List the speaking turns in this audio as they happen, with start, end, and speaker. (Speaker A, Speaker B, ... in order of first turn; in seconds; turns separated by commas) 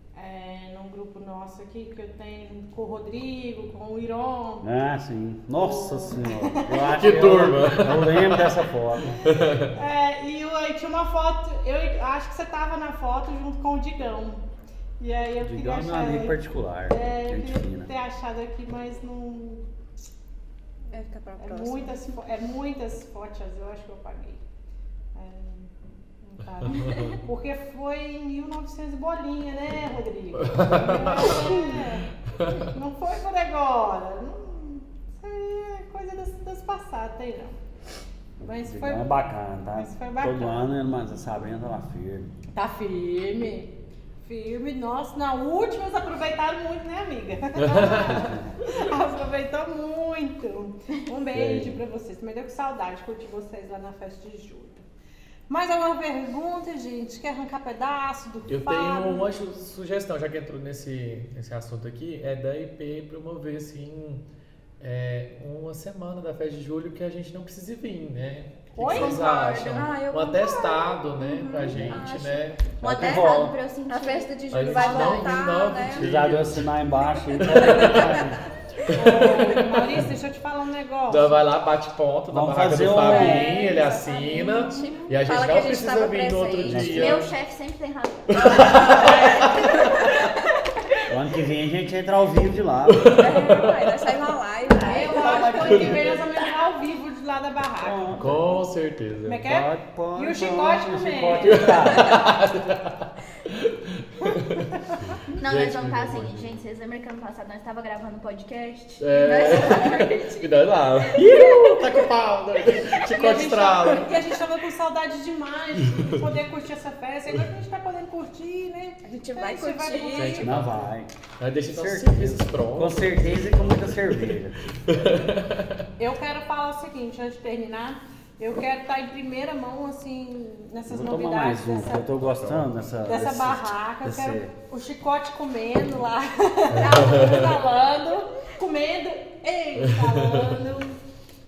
Speaker A: 0.1-4.7, Speaker B: 4.6-9.2, Speaker A: 5.5-7.7, Speaker C: 7.0-8.6, Speaker A: 9.1-14.4, Speaker C: 9.2-9.7, Speaker A: 15.0-19.6, Speaker B: 15.4-17.9, Speaker D: 20.9-22.0, Speaker A: 21.4-24.4, Speaker A: 25.1-32.1, Speaker C: 26.6-27.1, Speaker C: 30.4-31.6, Speaker C: 32.3-32.7, Speaker A: 32.6-37.6, Speaker B: 38.4-42.3, Speaker A: 38.4-39.1, Speaker A: 39.7-40.7, Speaker A: 42.5-54.8, Speaker C: 47.6-48.1, Speaker B: 48.0-48.5, Speaker B: 51.3-51.8, Speaker A: 55.5-59.3, Speaker C: 58.5-64.2, Speaker C: 64.8-72.6, Speaker A: 68.7-69.2, Speaker E: 68.8-70.0, Speaker D: 69.3-72.5, Speaker B: 71.6-72.0, Speaker B: 72.8-73.5, Speaker E: 72.8-75.4, Speaker D: 73.9-76.1, Speaker C: 74.5-76.8, Speaker B: 75.9-78.4, Speaker C: 77.3-78.2, Speaker D: 77.4-78.3, Speaker C: 78.8-80.1, Speaker A: 78.9-81.4, Speaker C: 81.1-87.3, Speaker B: 82.3-83.6, Speaker D: 82.9-87.1, Speaker B: 86.6-87.3, Speaker E: 86.8-90.4, Speaker C: 88.3-90.1, Speaker D: 88.6-90.2, Speaker B: 91.1-93.1, Speaker C: 92.9-93.9, Speaker D: 93.1-96.2, Speaker B: 94.7-96.3, Speaker A: 94.8-98.2, Speaker B: 97.8-98.6, Speaker C: 98.2-99.4, Speaker A: 99.2-101.8, Speaker B: 99.4-102.3, Speaker C: 101.5-104.7, Speaker A: 104.2-105.0, Speaker E: 105.3-110.3, Speaker C: 105.4-106.6, Speaker C: 109.0-114.3, Speaker D: 109.6-110.5, Speaker E: 111.1-111.5, Speaker D: 111.1-111.8, Speaker A: 113.0-120.5, Speaker C: 115.8-116.3, Speaker D: 119.0-120.5, Speaker E: 119.9-120.2, Speaker C: 120.1-125.8, Speaker B: 120.4-121.1, Speaker B: 121.7-124.7, Speaker A: 126.0-132.1, Speaker B: 130.9-134.5, Speaker C: 132.0-132.7, Speaker A: 133.1-141.0, Speaker C: 136.7-137.6, Speaker C: 139.8-140.6